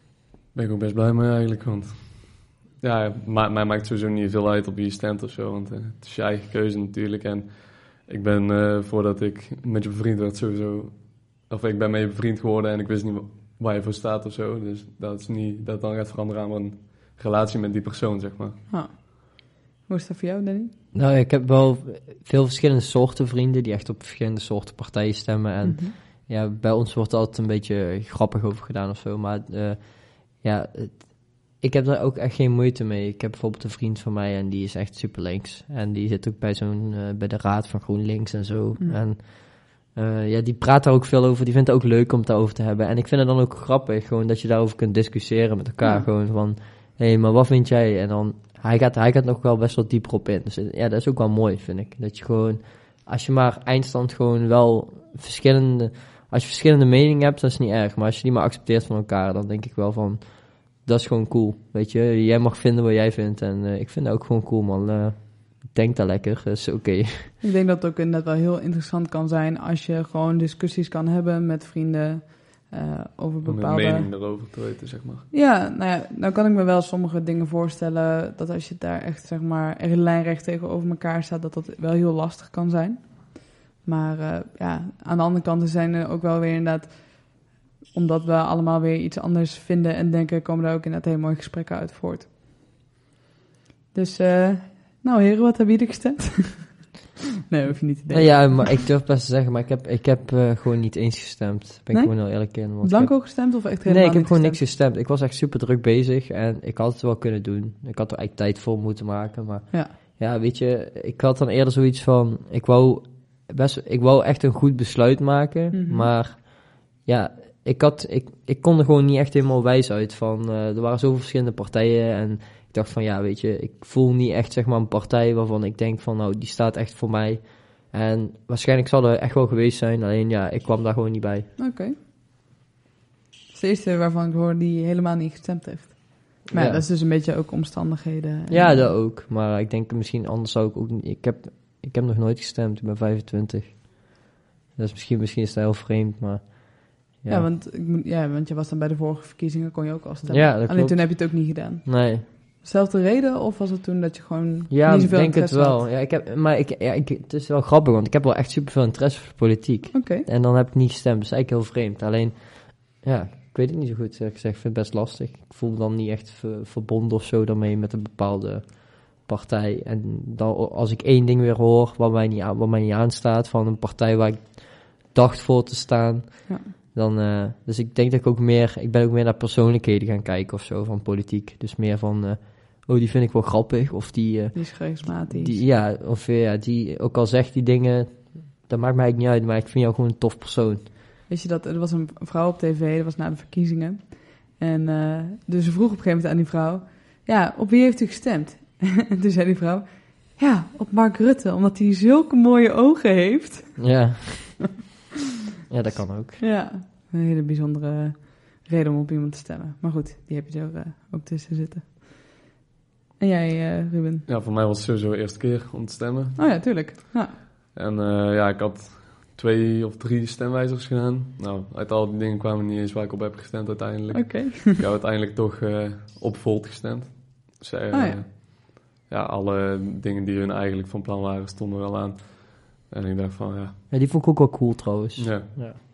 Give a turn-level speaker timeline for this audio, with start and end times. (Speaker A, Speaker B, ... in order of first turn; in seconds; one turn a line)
Speaker A: 0.5-18.6
Speaker B: 18.7-20.7
Speaker C: 20.9-67.3
Speaker B: 25.6-25.9
Speaker B: 45.8-46.1
Speaker B: 67.4-74.1
Speaker A: 73.4-75.3
Speaker B: 75.3-92.3
Speaker B: 93.9-96.9
Speaker B: 97.5-98.8
Speaker C: 98.0-131.5
Speaker B: 101.9-104.6
Speaker B: 115.7-116.1
Speaker B: 131.6-131.9
Speaker B: 133.5-138.9
Speaker C: 136.5-136.8
Speaker C: 138.5-147.5
Speaker B: 147.3-155.8
Speaker C: 150.3-152.2
Speaker C: 154.7-190.8
Speaker B: 159.9-160.2
Speaker B: 184.5-185.6
Speaker B: 191.3-204.4
Speaker C: 203.8-204.9
Speaker C: 205.7-206.4
Speaker B: 205.9-212.3
Speaker B: 213.2-214.2
Speaker A: 214.3-216.4
Speaker B: 216.3-217.4
Speaker A: 217.7-233.8
Speaker B: 224.1-224.8
Speaker B: 227.9-228.2
Speaker C: 233.9-235.8
Speaker A: 235.2-235.5